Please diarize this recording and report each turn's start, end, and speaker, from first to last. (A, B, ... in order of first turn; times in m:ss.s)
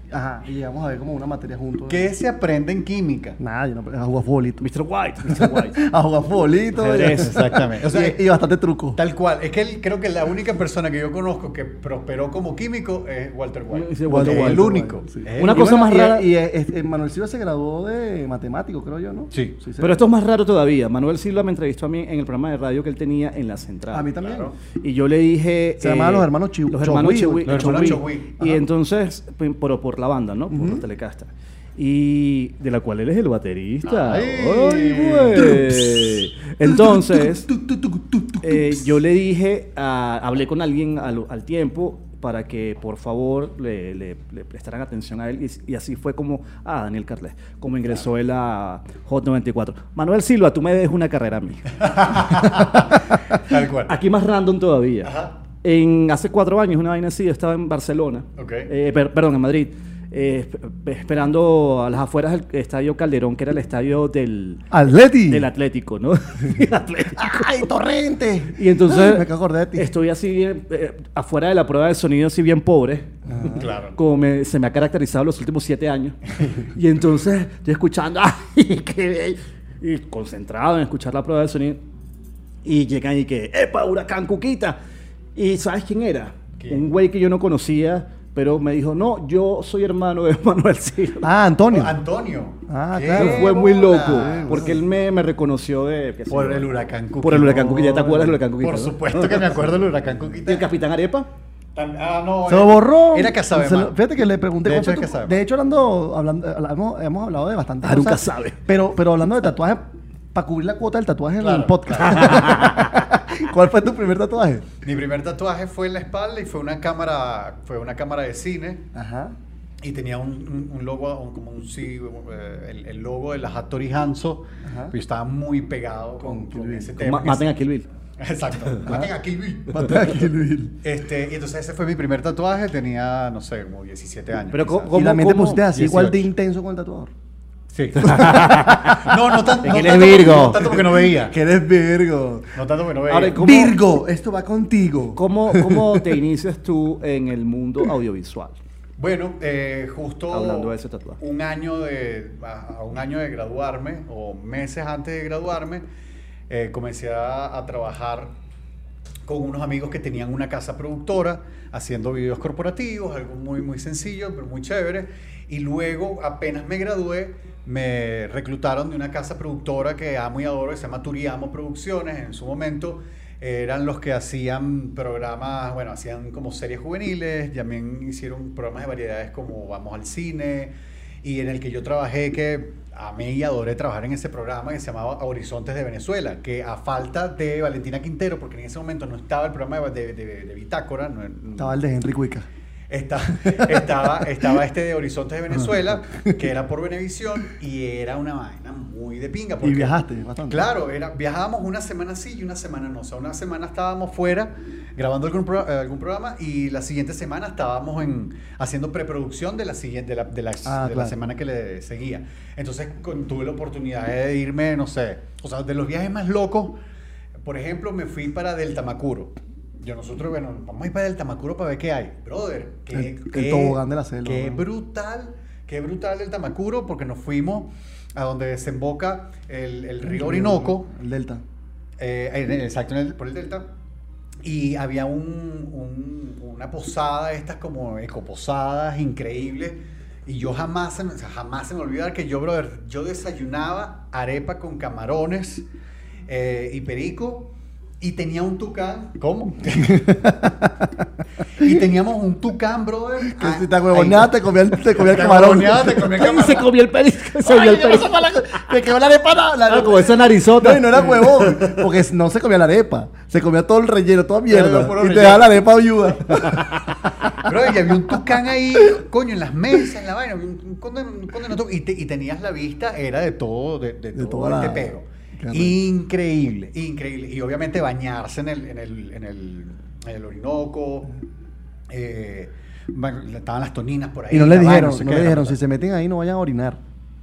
0:00.1-0:02.1 A
0:01.9-0:03.4 B
0:03.4-0:04.6 A
0:04.6-0:05.8 C
0:05.2-0:09.0 A
0:06.8-0:07.4 C
0:06.9-0:08.2 B
0:09.0-0:15.8 B
0:13.7-0:14.7 C
0:14.1-0:20.0 A
0:15.4-0:16.3 C
0:19.8-0:24.1 C
0:23.9-0:24.5 A
0:24.2-0:24.5 B
0:24.8-0:37.5 C
0:25.8-0:28.0 A
0:27.4-0:28.5 B
0:30.5-0:30.8 A
0:33.8-0:35.6 B
0:36.6-0:38.9 A
0:38.4-1:07.6 C
0:51.8-0:53.9 B
0:55.0-0:55.3 B
0:58.4-0:58.7 B
1:04.7-1:05.5 A
1:07.2-1:09.9 A
1:08.5-1:21.8 C
1:13.2-1:13.7 A
1:13.6-1:14.0 B
1:22.6-1:24.8 C
1:25.3-1:31.3 C
1:26.6-1:26.8 B
1:31.2-1:32.0 A
1:31.7-1:34.7 B
1:32.7-1:34.8 A
1:33.1-1:39.5 C
1:36.3-1:40.7 B
1:40.4-1:41.3 C
1:41.7-1:44.0 B
1:42.5-1:54.7 A
1:44.6-1:45.4 B
1:47.8-1:48.6 C
1:51.4-1:52.6 B
1:52.0-1:53.0 C
1:54.8-1:58.8 B
1:58.9-1:59.4 A
1:59.8-2:07.5 B
2:04.6-2:05.0 A
2:06.2-2:06.9 A
2:07.0-2:07.9 C
2:08.2-2:10.1 B
2:09.7-2:10.8 A
2:10.8-2:14.9 B
2:14.5-2:16.1 C
2:14.9-2:17.1 A
2:15.8-2:16.2 B
2:17.7-2:21.4 B
2:18.0-2:19.1 C
2:18.4-2:19.0 A
2:19.6-2:20.7 C
2:20.6-2:22.5 A
2:22.5-2:23.4 B
2:23.1-2:23.8 C
2:23.4-2:26.1 A
2:25.2-2:28.6 C
2:29.0-2:35.8 B
2:30.3-2:31.2 C
2:36.5-2:38.3 B
2:39.2-3:00.7 B
3:01.2-3:11.8 B
3:11.6-3:12.5 A
3:12.9-3:20.0 B
3:13.4-3:14.3 A
3:19.6-3:20.7 A
3:20.5-3:36.8 B
3:30.6-3:31.1 A
3:37.4-3:50.9 B
3:42.9-3:44.6 A
3:50.0-3:51.4 A
3:52.0-3:53.6 B
3:54.4-4:05.6 B
4:06.3-4:07.5 B
4:08.0-4:10.4 B
4:09.8-4:10.9 A
4:11.6-4:14.3 B
4:13.3-4:16.1 A
4:14.9-4:16.7 B
4:16.1-4:18.6 C
4:17.4-4:27.3 A
4:19.7-4:21.8 C
4:24.5-4:25.6 B
4:27.4-4:41.1 B
4:34.1-4:35.8 A
4:41.9-4:45.6 B
4:44.3-4:46.8 A